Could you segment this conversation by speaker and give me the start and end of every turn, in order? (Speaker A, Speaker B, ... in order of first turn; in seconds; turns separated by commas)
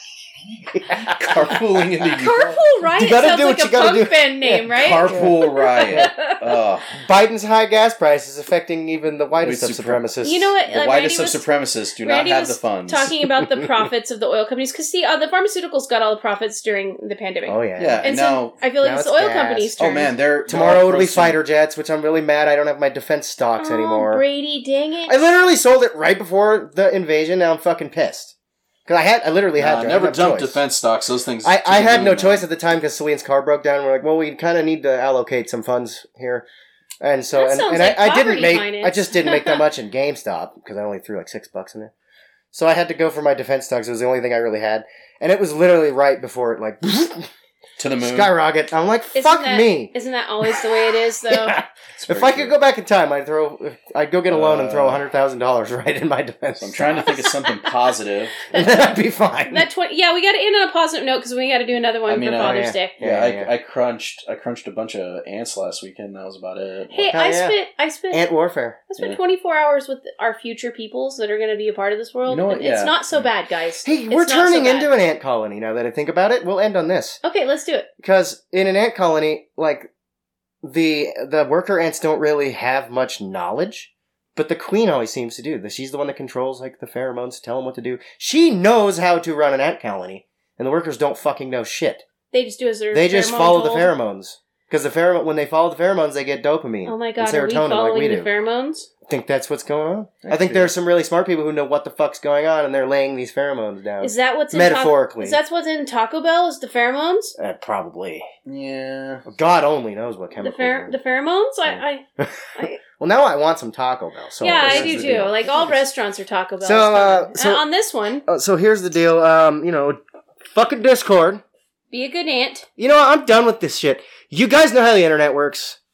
Speaker A: 0.6-2.6, Speaker B: 0.7-1.8, Speaker C: 2.1-6.4, Speaker B: 2.9-6.1, Speaker A: 4.7-7.0, Speaker B: 7.0-10.5, Speaker A: 9.4-10.1, Speaker C: 10.2-11.4, Speaker A: 10.7-13.2, Speaker C: 12.0-20.1, Speaker B: 17.4-18.1, Speaker A: 17.8-18.6, Speaker B: 18.8-19.7, Speaker A: 19.8-21.4, Speaker B: 20.5-24.2, Speaker C: 23.6-25.1, Speaker B: 25.1-28.3, Speaker B: 28.9-30.6, Speaker A: 29.6-32.5, Speaker B: 31.4-36.5, Speaker B: 37.0-41.9, Speaker C: 37.3-39.6, Speaker B: 42.5-47.3, Speaker A: 47.8-48.3, Speaker B: 48.0-49.9, Speaker C: 49.1-51.6, Speaker B: 50.4-57.2, Speaker A: 51.9-52.5, Speaker A: 54.3-55.0, Speaker A: 56.6-58.5, Speaker C: 57.0-57.9, Speaker C: 58.4-59.0, Speaker B: 58.5-59.7, Speaker C: 59.5-63.0, Speaker A: 62.1-67.1, Speaker B: 62.4-63.5, Speaker C: 66.9-68.3, Speaker B: 67.1-67.5, Speaker B: 68.1-68.9, Speaker C: 68.9-74.9, Speaker A: 72.2-73.0, Speaker B: 73.8-77.2, Speaker C: 77.2-77.9, Speaker B: 78.0-79.9, Speaker B: 80.6-92.0, Speaker C: 92.3-93.9, Speaker B: 92.9-98.3, Speaker C: 96.8-98.9, Speaker B: 99.0-105.4, Speaker A: 100.2-100.7, Speaker C: 104.0-107.3, Speaker B: 107.4-108.3, Speaker A: 108.5-109.2, Speaker B: 109.2-110.9, Speaker C: 110.4-112.0, Speaker B: 111.7-115.8, Speaker C: 114.4-118.2, Speaker A: 114.6-115.2, Speaker B: 116.6-117.6, Speaker B: 118.2-121.4, Speaker C: 121.9-122.7, Speaker B: 122.8-125.8